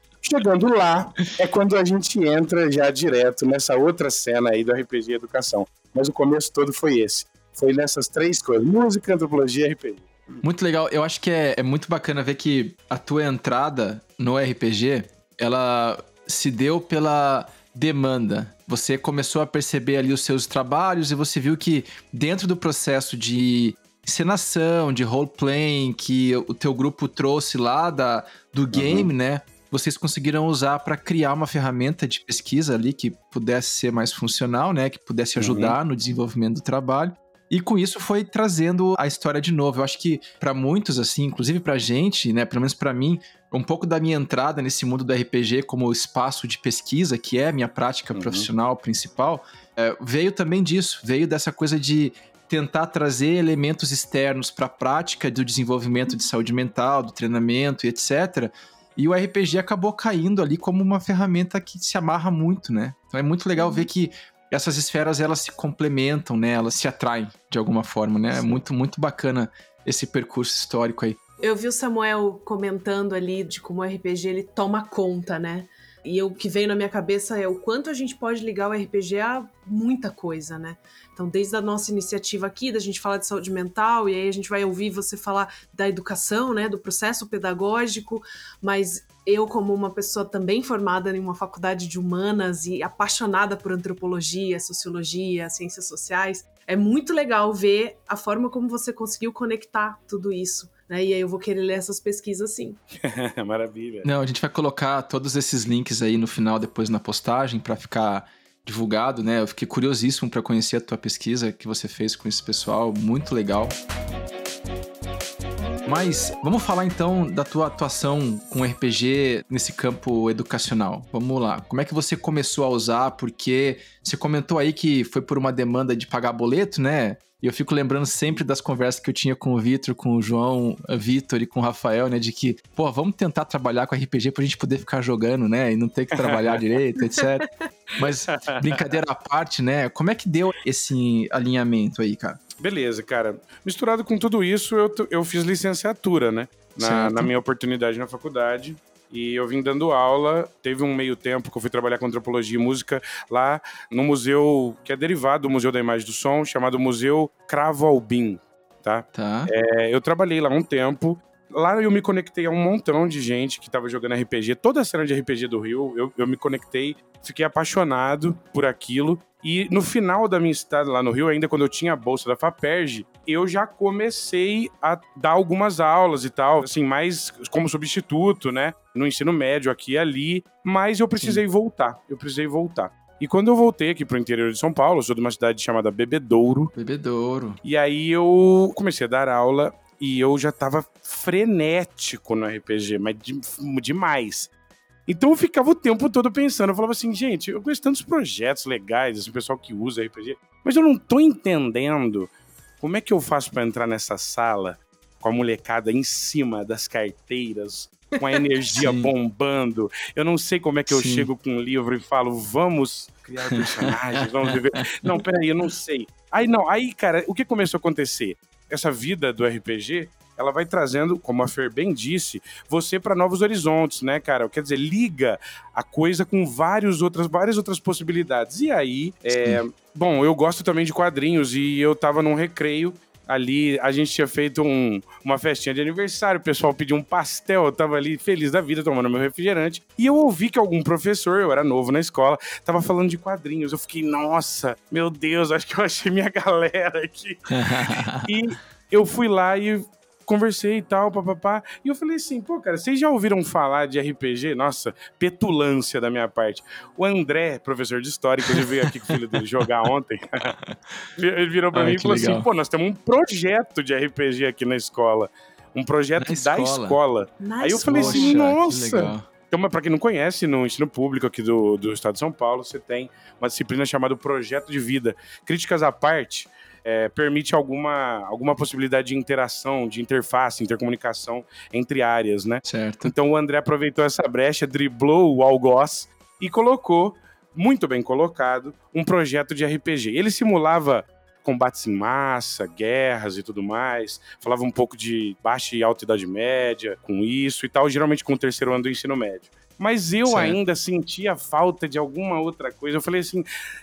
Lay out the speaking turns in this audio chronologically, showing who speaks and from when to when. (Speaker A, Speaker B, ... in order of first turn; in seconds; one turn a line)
Speaker A: 0.2-10.4
Speaker B: 10.4-71.2
Speaker A: 28.7-29.1
Speaker A: 35.4-35.8
Speaker A: 48.1-48.5
Speaker C: 63.5-63.9
Speaker C: 71.4-102.8
Speaker A: 103.0-104.1
Speaker B: 104.0-113.7
Speaker B: 115.8-142.4
Speaker A: 136.1-136.6
Speaker A: 138.3-138.8
Speaker A: 142.6-186.7
Speaker B: 146.8-147.3
Speaker B: 159.1-159.5
Speaker B: 181.2-181.4
Speaker B: 186.7-187.6
Speaker A: 187.6-194.5
Speaker A: 195.1-260.5
Speaker B: 208.8-209.1
Speaker B: 210.9-211.3
Speaker B: 213.5-215.2
Speaker B: 229.3-229.6
Speaker B: 247.5-248.2
Speaker B: 258.5-259.2
Speaker B: 260.6-261.0
Speaker A: 261.2-303.4
Speaker B: 261.7-262.5
Speaker B: 266.2-267.0
Speaker C: 267.4-268.4
Speaker B: 267.9-269.3
Speaker B: 282.6-283.1
Speaker B: 300.2-300.6